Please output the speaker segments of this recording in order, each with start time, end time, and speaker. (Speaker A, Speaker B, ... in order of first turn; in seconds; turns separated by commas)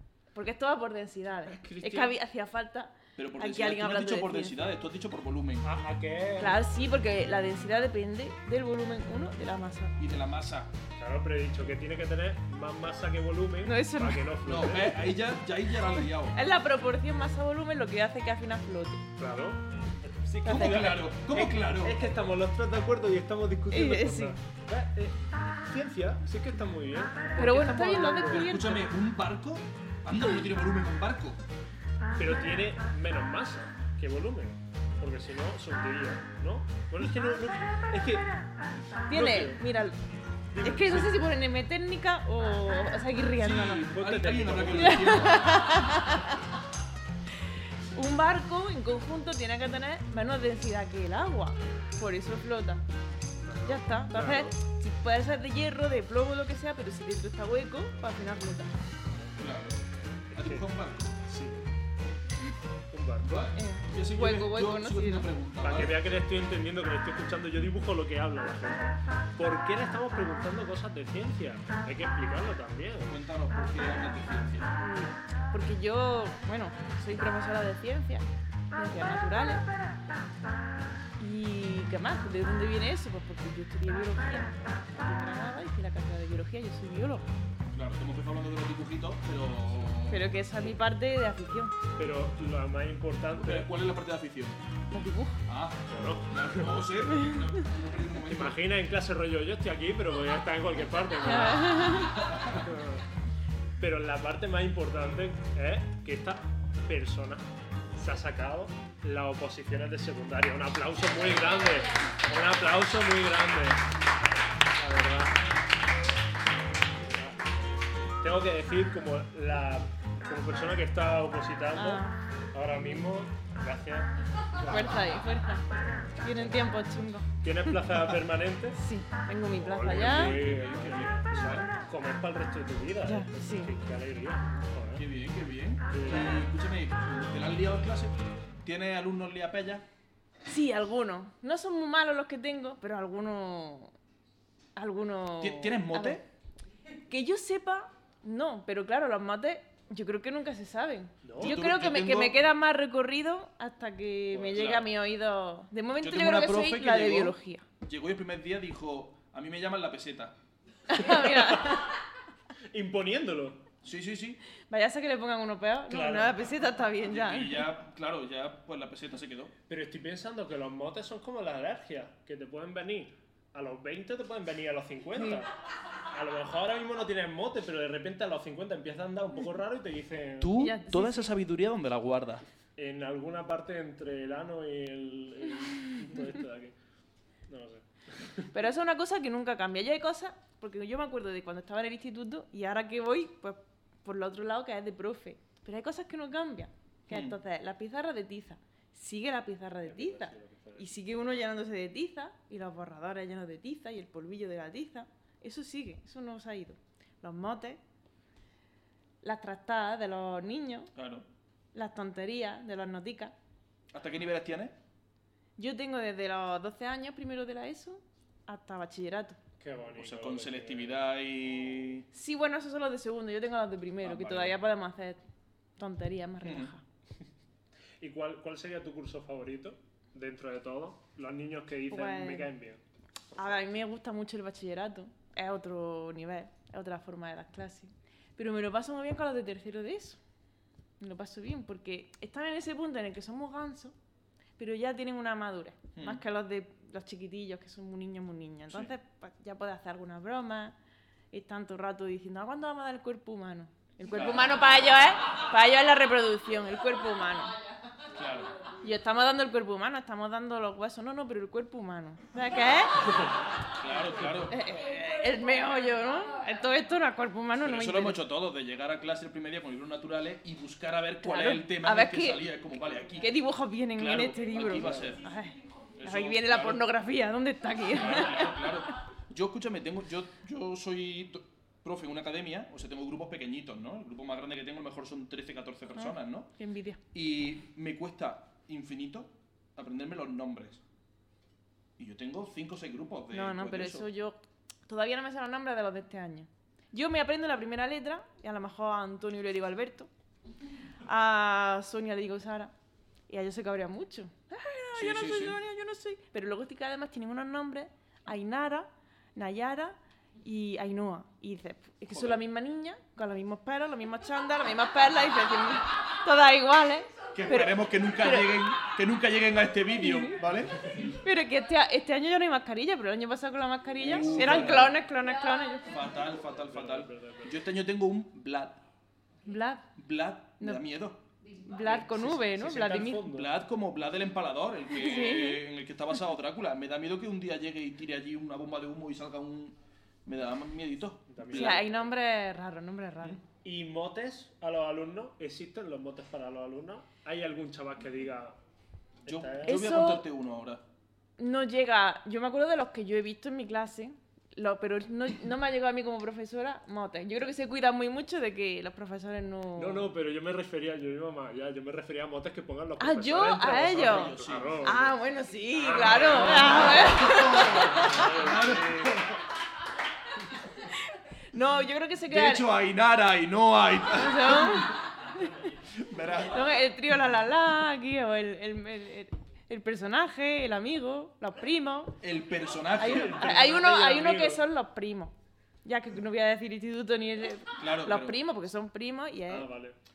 Speaker A: 0.3-4.6, Speaker B: 1.5-2.1, Speaker C: 3.2-5.7, Speaker B: 5.6-6.6, Speaker A: 6.4-10.0, Speaker C: 10.0-10.7, Speaker B: 11.0-15.2, Speaker A: 13.6-14.3, Speaker C: 14.4-16.4, Speaker A: 16.3-19.1, Speaker B: 19.2-28.5, Speaker A: 20.4-21.0, Speaker C: 20.5-22.0, Speaker A: 23.7-24.4, Speaker A: 27.4-28.9, Speaker C: 28.3-31.4, Speaker B: 32.2-38.3, Speaker B: 39.1-39.6, Speaker A: 39.1-40.0, Speaker B: 40.5-41.2, Speaker A: 40.6-43.9, Speaker C: 43.4-45.7, Speaker B: 43.8-45.4, Speaker A: 44.8-46.4, Speaker A: 47.9-52.9, Speaker B: 53.4-54.5, Speaker A: 53.7-58.8, Speaker C: 59.4-59.8, Speaker B: 60.3-60.7, Speaker C: 60.3-61.2, Speaker B: 61.2-61.6, Speaker B: 62.9-63.5, Speaker C: 63.2-66.0, Speaker A: 63.5-65.3, Speaker B: 65.6-73.1, Speaker C: 73.1-74.7, Speaker A: 74.8-79.7, Speaker A: 81.2-87.3, Speaker C: 87.7-90.4, Speaker A: 90.1-91.7, Speaker B: 92.0-93.7, Speaker C: 93.3-94.6, Speaker A: 94.9-95.4, Speaker C: 95.5-98.6, Speaker B: 95.9-97.1, Speaker A: 97.1-97.5, Speaker B: 98.3-103.0, Speaker A: 101.3-102.2, Speaker C: 102.1-102.7, Speaker B: 103.8-113.9, Speaker B: 114.8-115.4, Speaker B: 117.0-117.4, Speaker B: 118.2-125.1, Speaker A: 121.7-122.2, Speaker A: 124.7-125.7, Speaker A: 126.2-127.8, Speaker B: 127.4-128.8, Speaker A: 128.8-130.4, Speaker B: 129.6-135.1, Speaker C: 129.9-131.7, Speaker A: 133.0-133.7, Speaker C: 134.9-139.8, Speaker B: 135.9-136.4, Speaker A: 140.5-143.9, Speaker A: 144.8-146.2, Speaker C: 145.4-146.2, Speaker A: 147.1-157.7, Speaker B: 151.2-151.6, Speaker C: 151.4-152.3, Speaker B: 154.3-154.6, Speaker C: 154.5-154.9, Speaker C: 156.0-160.3, Speaker A: 160.9-162.0, Speaker B: 161.0-161.9, Speaker B: 162.7-163.6, Speaker C: 163.8-164.4, Speaker A: 164.7-167.7, Speaker B: 165.9-166.6, Speaker C: 167.0-169.5, Speaker B: 169.7-175.5, Speaker B: 176.1-180.6, Speaker C: 180.4-182.4, Speaker A: 180.6-181.3, Speaker B: 182.8-186.8, Speaker B: 187.5-188.5, Speaker A: 188.5-207.8, Speaker C: 197.1-197.4, Speaker B: 199.8-200.9, Speaker A: 209.2-210.9, Speaker C: 210.9-211.2, Speaker A: 211.7-213.3, Speaker C: 213.9-214.8, Speaker A: 215.6-219.4, Speaker B: 219.6-221.0, Speaker C: 220.0-222.1, Speaker A: 222.1-225.2, Speaker C: 224.0-224.6, Speaker A: 225.8-226.8, Speaker C: 226.4-226.7, Speaker B: 228.0-232.8, Speaker A: 231.9-232.5, Speaker A: 233.3-240.2, Speaker A: 241.0-243.9, Speaker A: 244.6-250.8, Speaker C: 245.9-246.2, Speaker A: 251.3-257.6, Speaker C: 254.1-254.6, Speaker C: 258.1-258.5, Speaker A: 258.8-263.3, Speaker C: 263.8-264.6, Speaker A: 264.5-268.2, Speaker C: 267.6-273.4, Speaker A: 271.2-272.4, Speaker A: 273.2-278.9, Speaker C: 273.9-275.3, Speaker B: 274.8-275.1, Speaker C: 276.0-276.8, Speaker C: 277.9-286.5, Speaker A: 286.0-287.0, Speaker C: 287.1-290.8, Speaker C: 292.0-294.1, Speaker A: 293.3-300.1, Speaker A: 301.1-302.7, Speaker A: 303.3-318.7, Speaker C: 304.9-305.6, Speaker C: 312.1-312.4, Speaker C: 317.4-321.2, Speaker A: 320.0-320.4, Speaker A: 321.0-325.9, Speaker C: 324.0-325.0, Speaker B: 324.1-325.0, Speaker C: 325.9-328.8, Speaker B: 326.4-327.6, Speaker A: 329.5-329.9, Speaker C: 330.0-331.2, Speaker A: 331.5-333.3, Speaker B: 331.8-333.5, Speaker C: 333.3-341.9, Speaker A: 334.9-335.6, Speaker B: 341.3-342.0, Speaker A: 341.5-343.4, Speaker B: 343.6-348.6, Speaker B: 349.3-349.8, Speaker C: 349.3-350.8, Speaker A: 349.6-350.3, Speaker A: 351.4-360.1, Speaker B: 359.8-365.1, Speaker A: 363.0-368.3, Speaker C: 363.9-365.1, Speaker B: 365.7-369.2, Speaker C: 366.4-369.4, Speaker A: 370.7-372.7, Speaker C: 372.3-374.9, Speaker A: 374.1-375.5, Speaker C: 375.9-376.7, Speaker A: 376.5-382.2, Speaker C: 382.2-383.6, Speaker A: 382.9-385.3, Speaker B: 383.0-384.6, Speaker A: 385.9-389.7, Speaker C: 387.8-388.4, Speaker B: 389.5-390.0